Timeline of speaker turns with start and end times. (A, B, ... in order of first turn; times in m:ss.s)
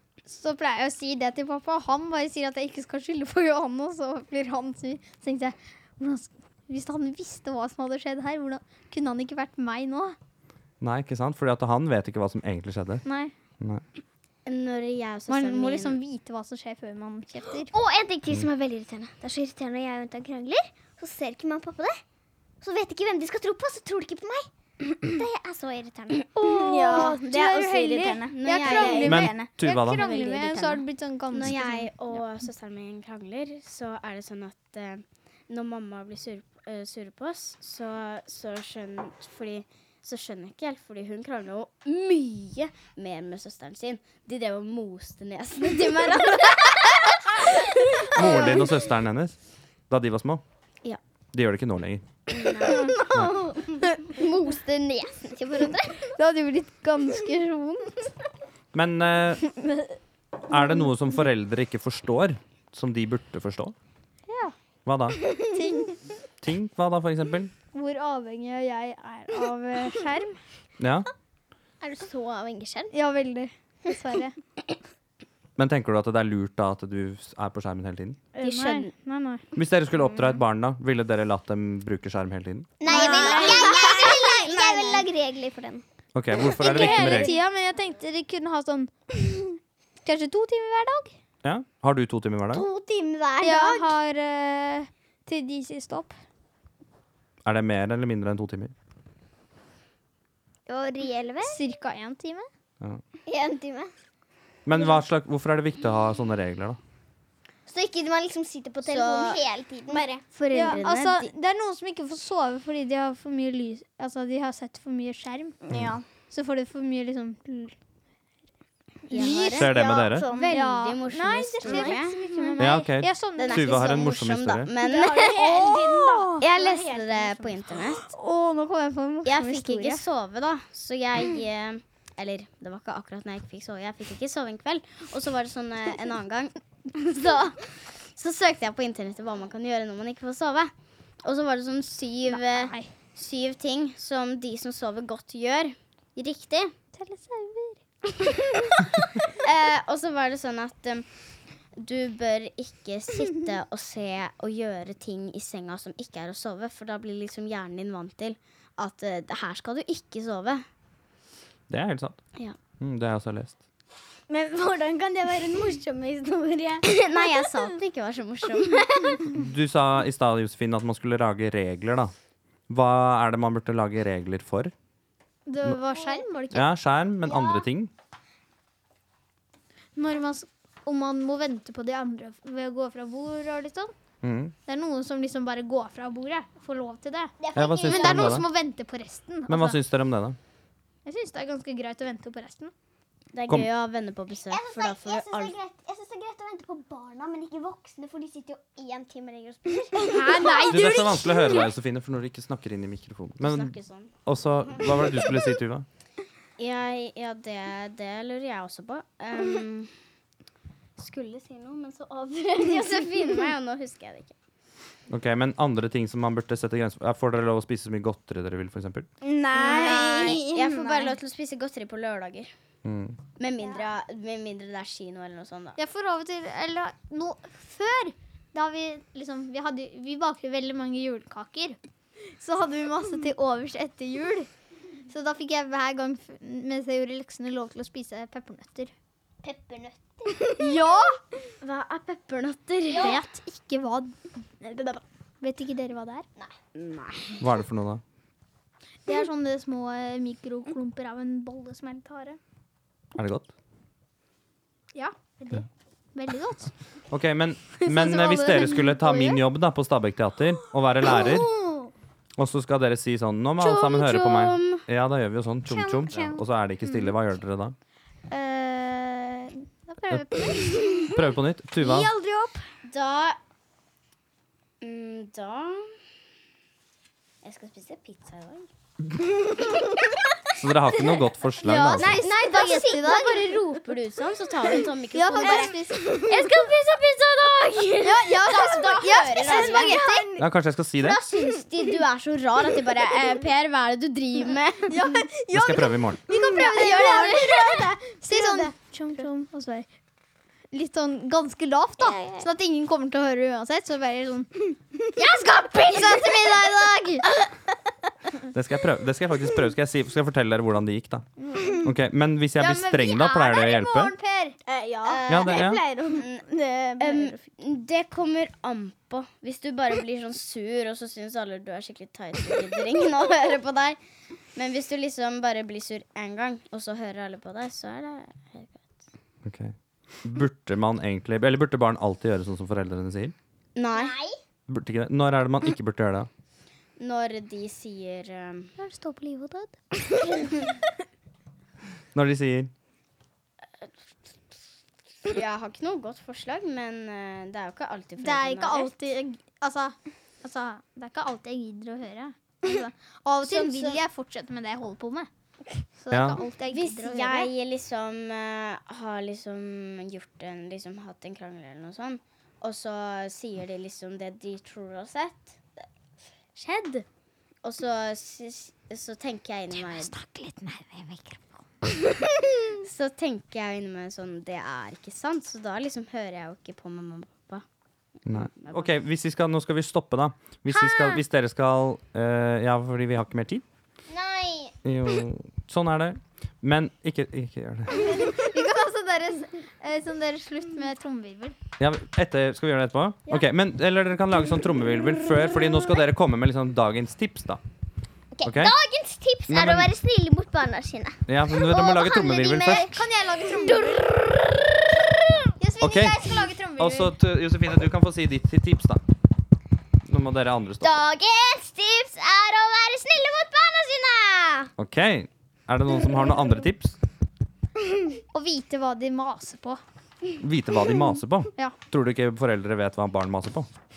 0:00.2-0:10.2 A
0:10.8-0:13.0 B
0:13.0-0:13.3 A
0:14.4-0:16.0 C
0:15.3-0:17.7 A
0:17.8-0:22.0 D
0:22.6-0:26.3 D
0:26.3-0:28.3 E
0:26.6-0:27.1 C
0:26.9-0:32.2 A
0:28.3-0:29.3 C
0:28.6-0:29.4 D
0:29.0-0:30.0 B
0:29.1-0:29.5 E
0:30.0-0:48.3 C
0:48.1-0:49.4 B
0:49.9-0:50.4 B
0:51.3-0:52.0 B
0:52.3-0:53.2 C
0:52.8-0:53.4 E
0:54.2-0:54.6 C
0:54.5-0:56.1 D
0:56.1-0:58.1 A
0:58.7-0:59.4 B
0:59.4-0:59.8 A
1:00.5-1:03.7 B
1:04.3-1:04.5 A
1:04.8-1:05.2 B
1:05.5-1:06.0 A
1:06.4-1:07.5 B
1:07.7-1:10.4 A
1:10.8-1:11.1 B
1:11.8-1:12.9 C
1:12.9-1:14.3 A
1:15.6-1:18.2 B
1:18.4-1:19.4 A
1:18.4-1:18.9 C
1:19.5-1:22.8 B
1:22.8-1:25.8 D
1:22.9-1:24.4 C
1:22.9-1:25.0 A
1:26.1-1:27.4 B
1:26.5-1:31.1 A
1:31.4-1:32.6 B
1:32.5-1:33.9 D
1:33.4-1:36.2 A
1:37.4-1:38.7 B
1:40.7-1:41.6 D
1:41.4-1:42.5 A
1:43.3-1:43.9 D
1:44.6-1:46.8 B
1:47.7-1:50.5 D
1:48.8-1:51.3 C
1:50.3-1:55.6 A
1:56.3-1:57.7 A
1:59.1-1:59.8 A
1:59.1-2:02.2 C
1:59.3-2:00.2 B
1:59.6-2:00.6 E
2:00.1-2:00.4 D
2:00.5-2:04.1 A
2:01.4-2:02.6 E
2:02.6-2:04.7 B
2:03.4-2:05.8 C
2:04.8-2:07.8 E
2:05.1-2:06.3 D
2:06.4-2:08.1 C
2:08.0-2:10.0 A
2:09.2-2:20.7 C
2:21.2-2:26.7 C
2:22.2-2:22.9 A
2:27.0-2:27.8 A
2:28.3-2:31.0 C
2:31.8-2:40.6 C
2:41.7-2:42.2 B
2:42.8-2:43.6 B
2:44.3-2:46.8 E
2:46.8-2:49.2 C
2:49.3-2:52.1 B
2:52.7-2:54.7 B
2:55.5-2:56.7 A
2:56.5-2:57.9 B
3:00.0-3:03.9 A
3:04.2-3:04.5 B
3:04.6-3:09.8 A
3:07.4-3:08.4 D
3:07.5-3:08.5 B
3:09.5-3:10.4 B
3:11.0-3:12.7 A
3:13.3-3:15.5 C
3:14.5-3:20.2 D
3:20.1-3:21.7 A
3:20.7-3:23.7 B
3:23.4-3:24.1 C
3:24.2-3:25.9 B
3:26.6-3:29.9 C
3:31.0-3:34.3 C
3:35.1-3:39.1 B
3:39.2-3:41.1 E
3:39.5-3:42.5 C
3:42.8-3:43.2 B
3:43.4-3:45.8 C
3:45.8-3:51.8 A
3:52.4-3:54.5 A
3:55.1-3:58.9 A
3:59.4-4:00.4 D
4:00.6-4:01.1 A
4:01.6-4:03.2 C
4:02.9-4:03.2 D
4:02.9-4:04.2 A
4:05.4-4:06.2 A
4:06.8-4:07.4 C
4:07.4-4:08.0 B
4:09.0-4:12.4 A
4:13.1-4:13.5 B
4:14.9-4:16.7 A
4:17.1-4:21.5 B
4:17.9-4:19.4 A
4:21.3-4:21.7 E
4:22.4-4:27.8 B
4:23.6-4:24.8 C
4:25.7-4:26.4 E
4:28.3-4:31.1 A
4:30.1-4:32.1 B
4:30.7-4:31.0 E
4:31.8-4:32.6 E
4:32.9-4:33.4 C
4:34.8-4:35.9 C
4:37.4-4:38.7 C
4:39.6-4:39.9 E
4:40.6-4:42.1 B
4:41.6-4:42.9 A
4:42.0-4:50.2 C
4:42.0-4:43.4 D
4:45.1-4:46.0 A
4:45.4-4:46.5 E
4:48.0-4:50.2 A
4:49.4-4:50.4 E
4:50.4-4:51.2 B
4:51.0-4:55.0 C
4:54.9-4:55.6 A
4:55.1-4:55.7 E
4:55.5-4:56.2 B
4:56.3-4:59.9 A
4:56.3-4:58.7 E
4:57.3-4:57.8 C
5:00.7-5:04.7 A
5:02.0-5:02.4 D
5:05.9-5:07.2 A
5:08.5-5:11.2 B
5:11.4-5:11.9 A
5:11.8-5:14.2 B
5:12.6-5:14.6 A
5:14.6-5:17.3 E
5:15.0-5:16.4 C
5:15.3-5:15.8 B
5:17.0-5:24.0 C
5:24.6-5:28.9 C
5:29.4-5:33.3 B
5:33.8-5:34.2 C
5:33.9-5:34.3 D
5:34.7-5:36.3 B
5:37.0-5:38.7 C
5:38.8-5:39.8 A
5:42.1-5:42.7 B
5:45.2-5:49.0 C
5:48.2-5:55.3 A
5:53.4-5:54.0 C
5:56.0-5:57.5 A
5:56.1-5:56.4 B
5:56.7-6:05.6 C
6:06.6-6:07.0 A
6:07.6-6:10.1 C
6:09.8-6:11.6 A
6:12.8-6:17.6 C
6:18.3-6:18.9 C
6:18.3-6:23.6 B
6:20.7-6:21.2 A
6:24.1-6:24.7 D
6:24.8-6:28.2 B
6:27.9-6:31.6 A
6:31.8-6:37.6 B
6:38.3-6:43.0 D
6:38.4-6:38.7 B
6:39.5-6:39.9 B
6:41.3-6:43.0 B
6:42.9-6:44.0 A
6:43.6-6:45.1 D
6:45.6-6:47.1 A
6:45.8-6:49.0 B
6:50.1-6:51.0 B
6:50.8-6:54.7 D
6:54.8-6:57.0 B
6:58.3-6:59.8 A
7:00.4-7:03.7 B